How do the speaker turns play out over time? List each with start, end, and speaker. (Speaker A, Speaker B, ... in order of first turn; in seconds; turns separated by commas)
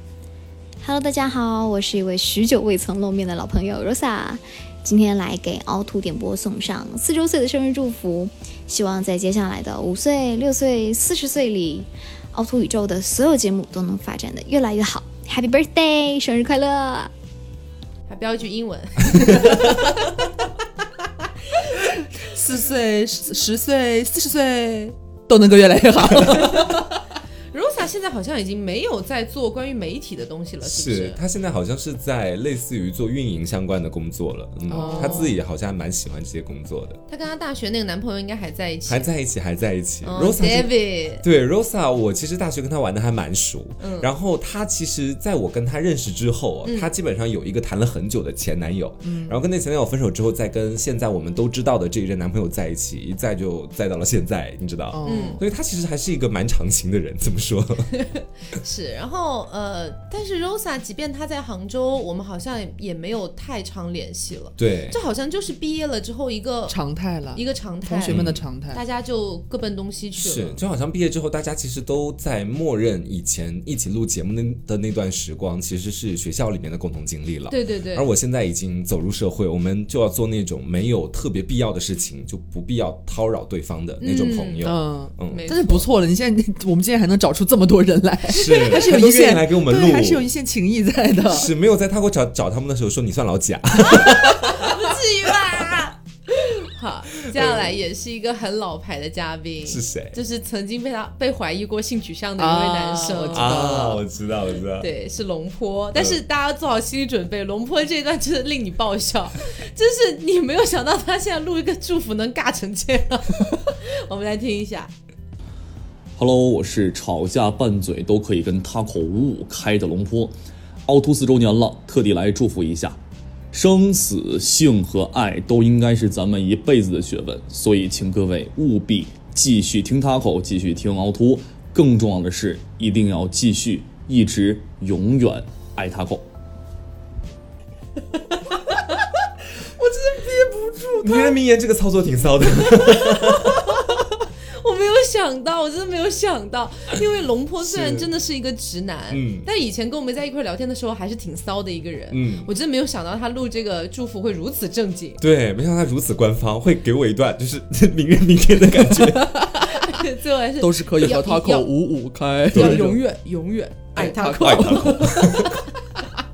Speaker A: 0.8-17.1, Speaker B: 18.1-20.1, Speaker C: 21.8-26.9, Speaker B: 27.5-31.2, Speaker D: 30.6-37.0, Speaker C: 34.7-35.3, Speaker B: 34.7-35.3, Speaker B: 37.1-39.1, Speaker D: 38.9-57.9, Speaker B: 40.0-41.2, Speaker B: 43.8-44.1, Speaker B: 46.6-46.9, Speaker C: 49.0-49.4, Speaker C: 54.9-55.4, Speaker B: 55.0-55.4, Speaker B: 58.0-66.8, Speaker D: 64.6-65.0, Speaker C: 66.7-68.8, Speaker B: 67.3-70.6, Speaker D: 68.1-68.4, Speaker D: 70.2-85.8, Speaker B: 77.5-78.1, Speaker B: 84.0-84.7, Speaker C: 84.6-91.5, Speaker B: 85.3-85.8, Speaker D: 88.3-90.3, Speaker D: 91.3-94.6, Speaker B: 93.9-103.8, Speaker D: 97.3-97.8, Speaker D: 99.7-100.2, Speaker C: 102.4-104.0, Speaker D: 103.3-104.9, Speaker B: 104.8-114.9, Speaker D: 105.9-106.2, Speaker E: 116.2-120.3, Speaker E: 120.8-123.0, Speaker E: 123.5-136.2, Speaker C: 139.8-141.3, Speaker D: 141.0-143.6, Speaker B: 143.4-143.8, Speaker B: 144.5-155.2, Speaker D: 147.6-148.1, Speaker D: 149.1-149.5, Speaker D: 152.1-152.5, Speaker D: 155.2-159.4, Speaker B: 159.6-161.7, Speaker C: 160.6-163.1, Speaker D: 162.5-163.0, Speaker B: 162.5-165.5, Speaker C: 163.9-165.6, Speaker D: 164.4-165.6